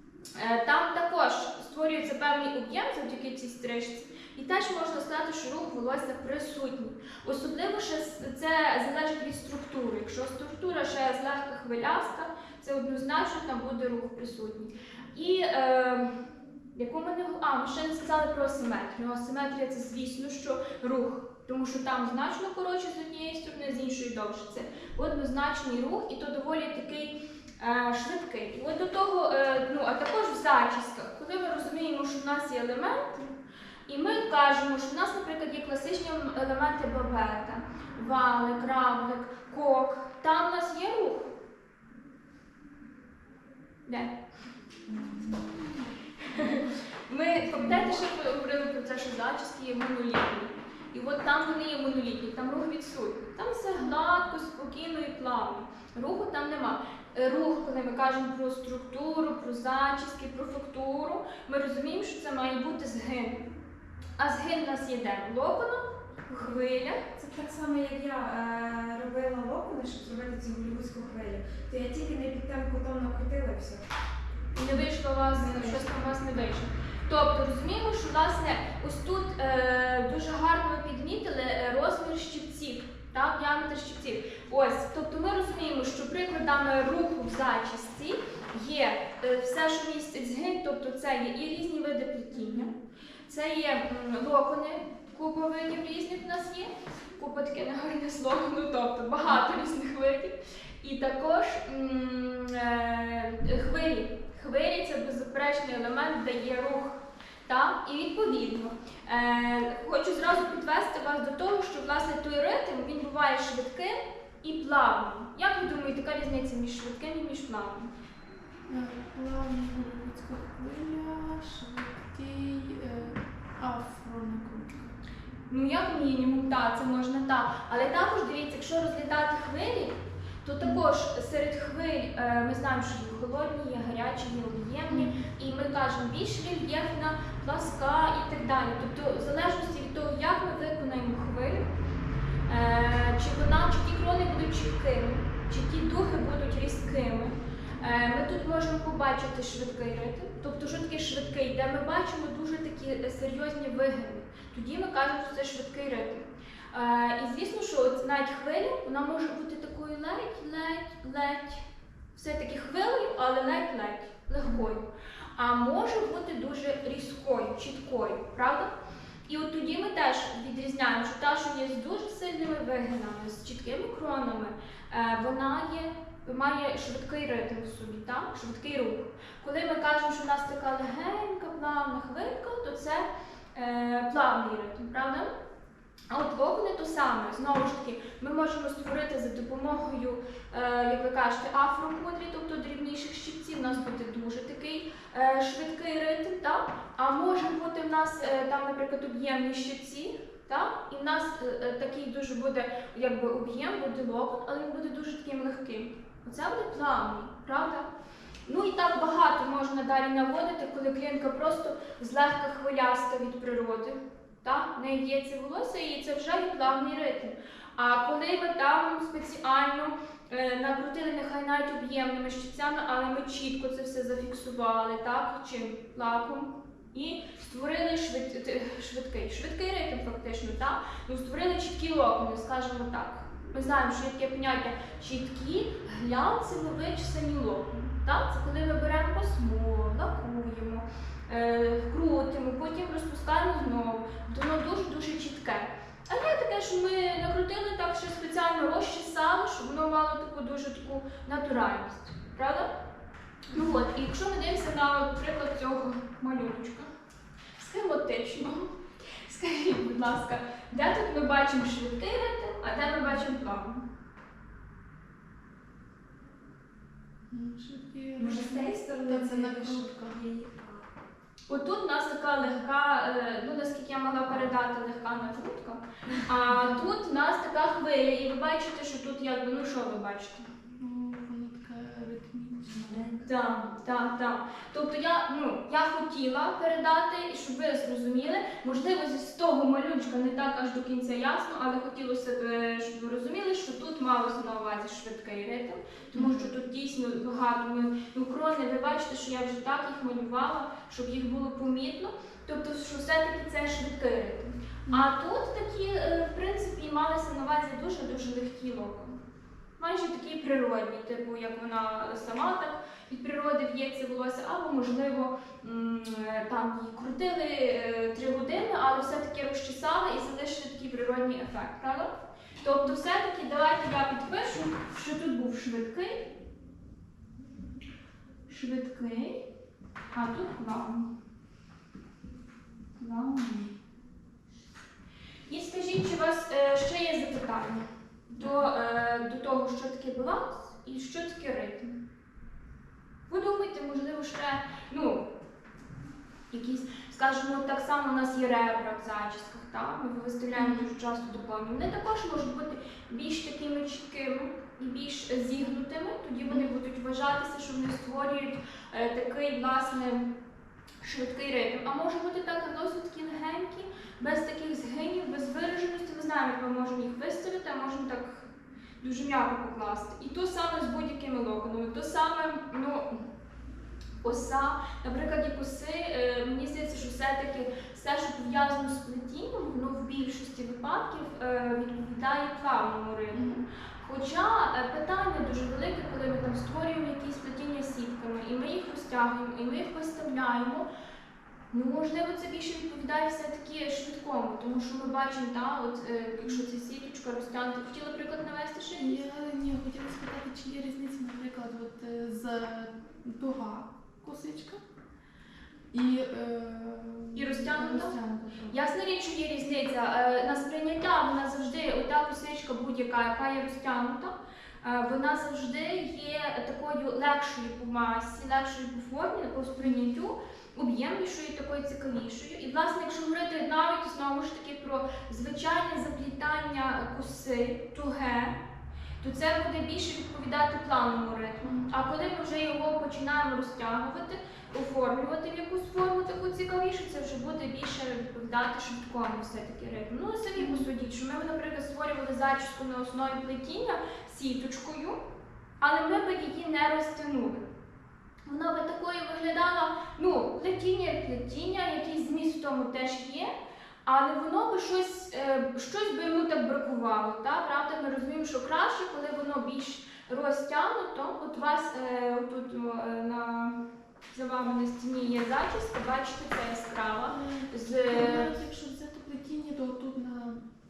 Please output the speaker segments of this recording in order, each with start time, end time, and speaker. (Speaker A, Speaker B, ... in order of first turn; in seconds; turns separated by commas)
Speaker A: 0.3-16.1, Speaker A: 16.7-33.4, Speaker A: 33.9-41.4, Speaker A: 43.9-44.2, Speaker B: 45.0-45.2, Speaker C: 45.0-45.4, Speaker A: 46.2-63.5, Speaker C: 47.5-47.9, Speaker A: 64.2-67.0, Speaker B: 67.1-73.8, Speaker A: 74.5-92.7, Speaker B: 75.5-75.8, Speaker A: 93.3-117.9, Speaker C: 118.7-124.9, Speaker A: 125.5-141.7, Speaker C: 134.9-135.1, Speaker A: 142.5-161.6, Speaker A: 162.1-168.7, Speaker A: 169.3-185.3, Speaker A: 186.1-207.9, Speaker A: 208.5-252.7, Speaker A: 253.5-256.9, Speaker C: 253.5-253.8, Speaker A: 257.6-263.8, Speaker C: 267.3-270.2, Speaker B: 268.2-270.8, Speaker A: 271.5-280.5, Speaker C: 280.8-283.2, Speaker A: 283.2-309.1, Speaker C: 296.1-296.6, Speaker A: 309.8-322.1, Speaker A: 322.6-326.2, Speaker A: 328.5-329.4, Speaker A: 330.1-331.1, Speaker A: 333.0-333.7, Speaker A: 335.5-341.9, Speaker A: 343.3-345.2, Speaker A: 346.5-360.3, Speaker C: 350.5-350.9, Speaker A: 361.0-368.5, Speaker A: 369.0-373.2, Speaker A: 374.2-390.9, Speaker C: 383.3-383.6, Speaker A: 391.7-399.2, Speaker C: 398.9-404.8, Speaker C: 405.9-408.8, Speaker A: 407.3-408.1, Speaker A: 408.7-428.5, Speaker A: 429.2-445.2, Speaker C: 431.6-431.9, Speaker C: 440.6-440.9, Speaker A: 445.8-447.6, Speaker A: 448.5-453.5, Speaker A: 454.1-463.8, Speaker A: 464.3-468.6, Speaker C: 467.3-470.6